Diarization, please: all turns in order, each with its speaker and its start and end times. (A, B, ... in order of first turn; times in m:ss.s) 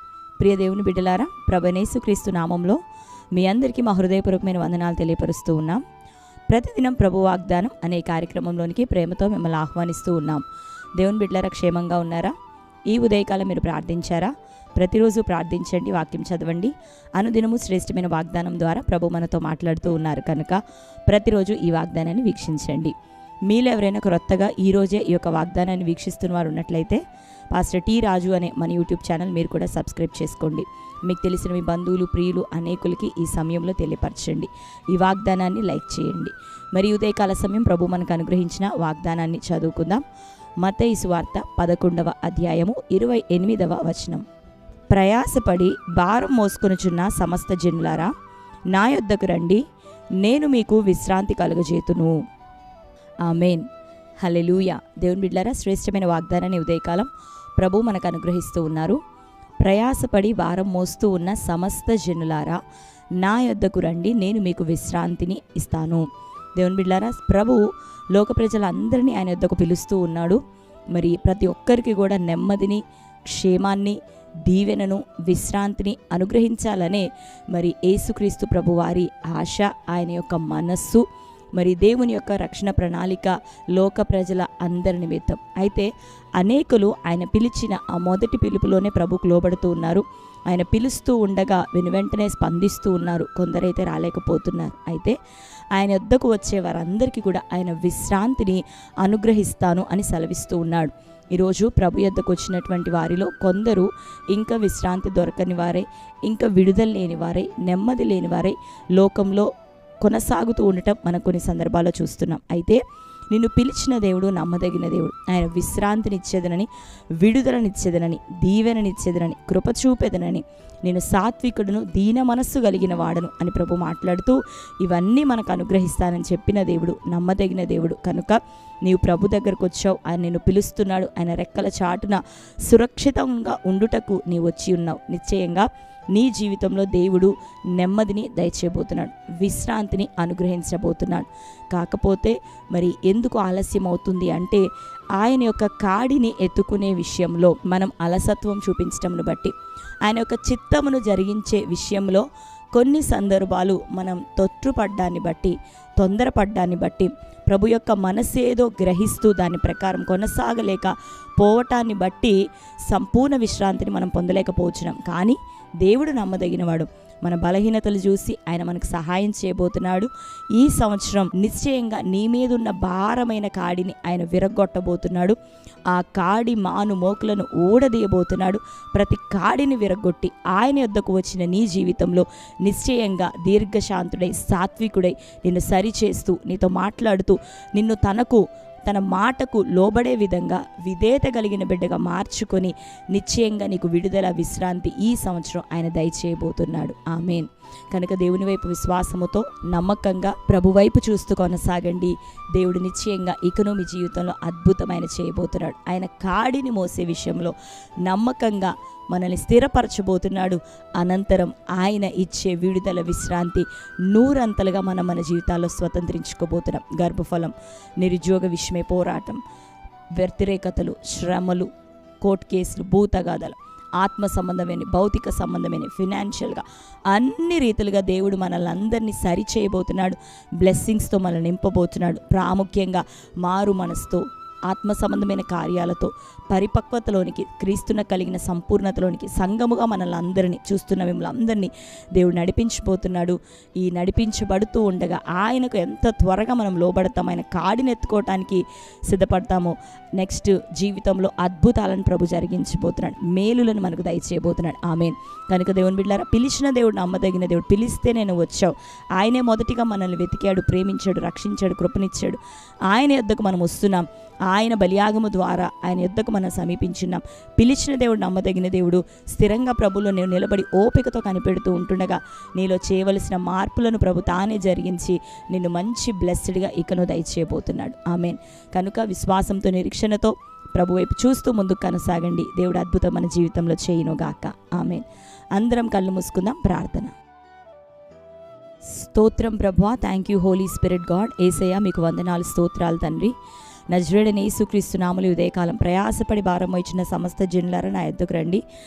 0:00.4-0:02.8 A
0:03.3-0:05.8 A
0:06.5-0:10.4 A
0:11.0-0:12.3 A
0:12.9-0:22.9 A
0:23.5-0:27.0 A
0:27.5-0:40.0 A
0:40.6-0:44.2 A
0:44.9-0:48.1 A
0:48.7-0:49.6 A
0:50.2-0:52.1 A
0:53.2-0:53.6 A
0:54.2-0:59.0 A
0:59.6-1:02.6 A
1:03.2-1:35.2 A
1:35.7-1:49.5 A
1:50.0-1:56.7 A
1:57.2-2:24.6 A
2:25.2-2:42.4 A
2:42.9-2:55.4 A
2:55.9-3:39.4 A
3:40.2-3:41.7 A
3:42.2-4:47.1 A
4:48.9-4:53.3 A
4:53.9-4:58.6 A